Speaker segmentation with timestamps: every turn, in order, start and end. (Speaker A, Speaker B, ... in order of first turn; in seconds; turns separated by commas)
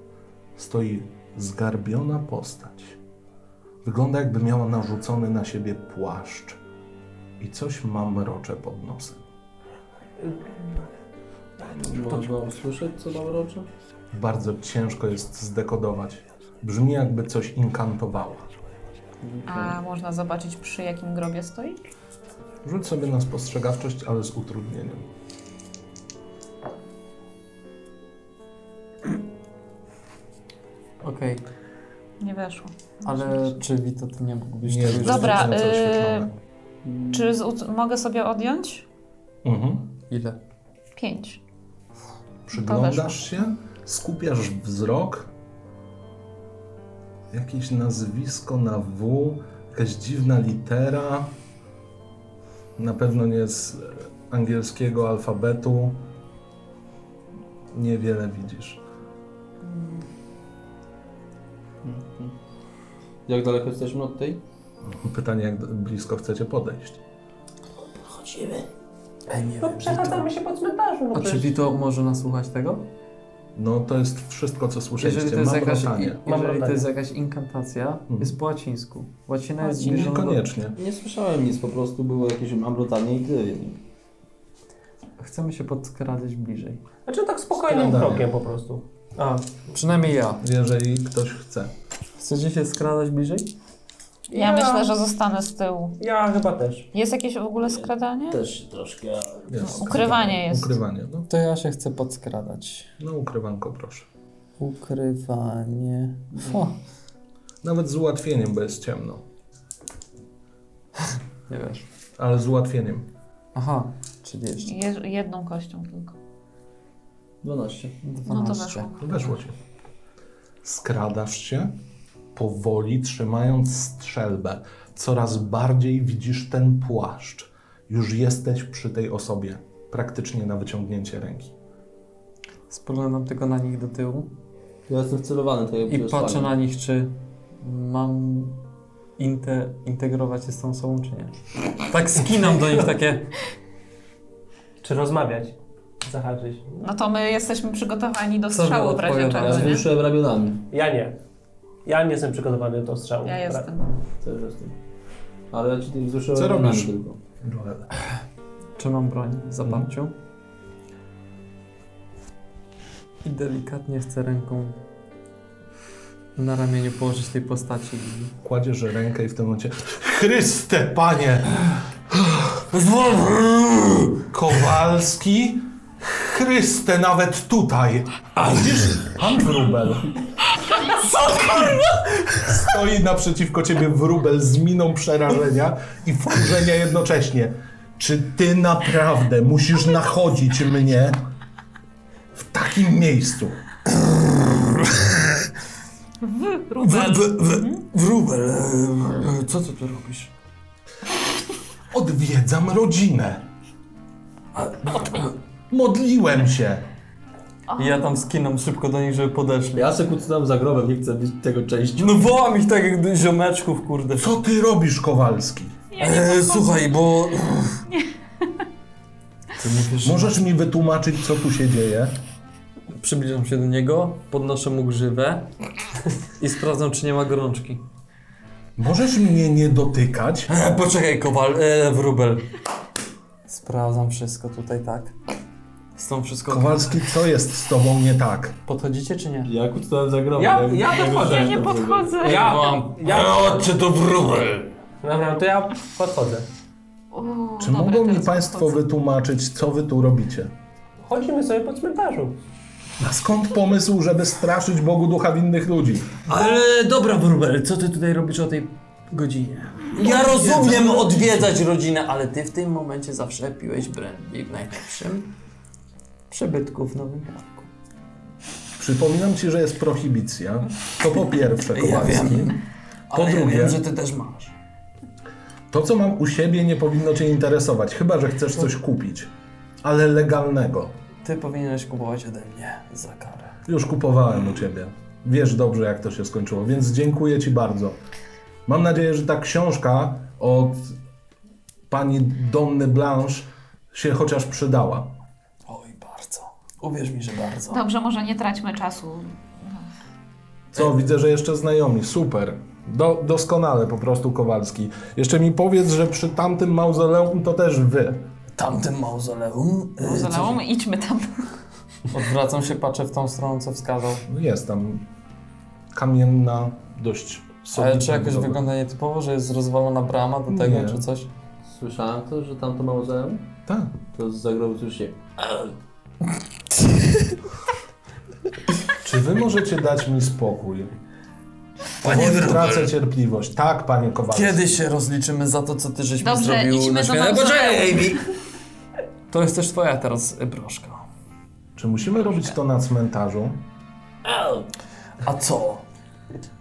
Speaker A: 0.6-3.0, Speaker A: 3.8-6.6, Speaker A: 7.4-9.2, Speaker B: 10.2-10.5, Speaker C: 11.6-13.7, Speaker A: 14.1-18.5, Speaker C: 19.2-19.8, Speaker D: 19.4-21.8, Speaker A: 22.6-25.1, Speaker E: 31.0-31.4, Speaker D: 32.2-33.5, Speaker E: 33.0-35.5, Speaker A: 34.6-36.3, Speaker D: 35.0-36.3, Speaker C: 36.8-37.3, Speaker D: 37.1-38.9, Speaker A: 39.4-39.9, Speaker E: 40.1-40.4, Speaker D: 41.0-41.4, Speaker A: 42.5-45.3, Speaker D: 42.5-43.4, Speaker A: 47.3-51.3, Speaker A: 52.8-56.0, Speaker A: 57.7-58.8, Speaker D: 59.6-60.0, Speaker C: 61.8-62.3, Speaker C: 63.3-64.4, Speaker A: 64.8-67.0, Speaker C: 67.8-68.7, Speaker E: 69.3-70.3, Speaker B: 69.5-71.5, Speaker E: 71.1-72.9, Speaker A: 73.5-76.2, Speaker E: 75.0-80.5, Speaker B: 76.2-76.8, Speaker A: 78.1-78.3, Speaker D: 79.6-80.1, Speaker A: 79.8-80.8, Speaker C: 80.8-83.8, Speaker E: 85.2-86.8, Speaker B: 87.0-89.6, Speaker A: 87.7-88.3, Speaker E: 89.7-90.4, Speaker A: 90.4-91.7, Speaker E: 92.2-93.5, Speaker B: 94.3-94.9, Speaker D: 94.3-96.0, Speaker B: 96.0-96.9, Speaker D: 96.9-98.4, Speaker C: 97.6-100.2, Speaker A: 99.5-101.3, Speaker D: 99.6-100.8, Speaker E: 101.3-102.9, Speaker A: 103.0-104.1, Speaker E: 104.6-106.8, Speaker C: 106.3-106.6, Speaker A: 107.6-109.2, Speaker E: 111.1-111.8, Speaker A: 112.2-113.1, Speaker E: 113.5-114.8, Speaker D: 114.6-116.1, Speaker C: 117.4-118.0, Speaker E: 118.0-118.9, Speaker D: 118.2-119.0, Speaker A: 119.0-119.6, Speaker A: 120.6-121.7, Speaker A: 122.3-131.5, Speaker E: 132.7-134.3, Speaker C: 134.9-136.5, Speaker E: 135.9-138.6, Speaker E: 139.2-143.3, Speaker B: 144.8-146.9, Speaker D: 146.8-149.9, Speaker E: 148.5-149.8, Speaker C: 149.3-150.6, Speaker B: 150.7-151.2, Speaker B: 151.8-153.7, Speaker D: 153.2-153.9, Speaker C: 154.2-154.7, Speaker C: 155.5-157.2, Speaker A: 156.3-157.9, Speaker E: 158.8-160.1, Speaker A: 159.6-159.9, Speaker E: 163.2-164.8, Speaker E: 166.3-168.3, Speaker A: 168.4-171.8, Speaker E: 172.7-174.2, Speaker A: 174.3-180.1, Speaker E: 181.1-182.2, Speaker A: 181.3-181.8, Speaker A: 182.4-191.2, Speaker A: 192.3-193.6, Speaker E: 193.9-195.5, Speaker D: 196.2-197.8, Speaker E: 196.8-200.3, Speaker A: 201.9-203.5, Speaker E: 204.5-205.3, Speaker A: 205.7-206.9, Speaker D: 207.7-208.2, Speaker E: 207.8-209.9, Speaker C: 209.8-212.2, Speaker E: 212.0-214.4, Speaker A: 214.2-215.8, Speaker D: 215.9-216.9, Speaker E: 216.0-217.8, Speaker E: 219.6-220.5, Speaker A: 220.0-222.2, Speaker E: 222.9-225.5, Speaker E: 226.4-227.8, Speaker A: 228.8-230.5, Speaker E: 230.5-232.5, Speaker E: 233.5-235.1, Speaker E: 236.0-237.1, Speaker A: 236.5-238.6, Speaker E: 238.7-239.5, Speaker C: 239.4-242.6, Speaker B: 240.3-241.6, Speaker D: 241.1-242.5, Speaker B: 242.2-243.7, Speaker E: 242.2-244.7, Speaker B: 245.0-246.4, Speaker D: 247.1-248.8, Speaker A: 247.6-250.5, Speaker B: 251.0-252.4, Speaker A: 253.0-256.1, Speaker E: 256.3-265.3, Speaker B: 260.0-260.9, Speaker E: 266.3-267.7, Speaker A: 268.8-272.6, Speaker E: 271.7-274.5, Speaker A: 273.1-273.8, Speaker A: 275.7-279.3, Speaker A: 279.8-280.9, Speaker E: 281.2-283.6, Speaker A: 283.6-288.0, Speaker A: 288.7-290.9, Speaker A: 291.9-295.1, Speaker E: 295.7-297.8, Speaker D: 297.7-299.8, Speaker A: 300.7-308.3, Speaker E: 308.5-310.6, Speaker D: 310.0-311.4, Speaker E: 312.1-314.2, Speaker A: 314.3-315.0, Speaker A: 315.9-318.6, Speaker E: 317.7-321.3, Speaker A: 320.5-321.0, Speaker C: 321.6-323.5, Speaker A: 323.7-324.0, Speaker C: 324.1-325.7, Speaker E: 326.7-327.4, Speaker A: 329.0-331.0, Speaker E: 332.0-332.9, Speaker A: 332.0-334.8, Speaker E: 334.3-338.2, Speaker D: 336.2-338.2, Speaker E: 339.3-341.0, Speaker A: 341.8-343.6, Speaker C: 344.2-344.7, Speaker E: 345.2-345.8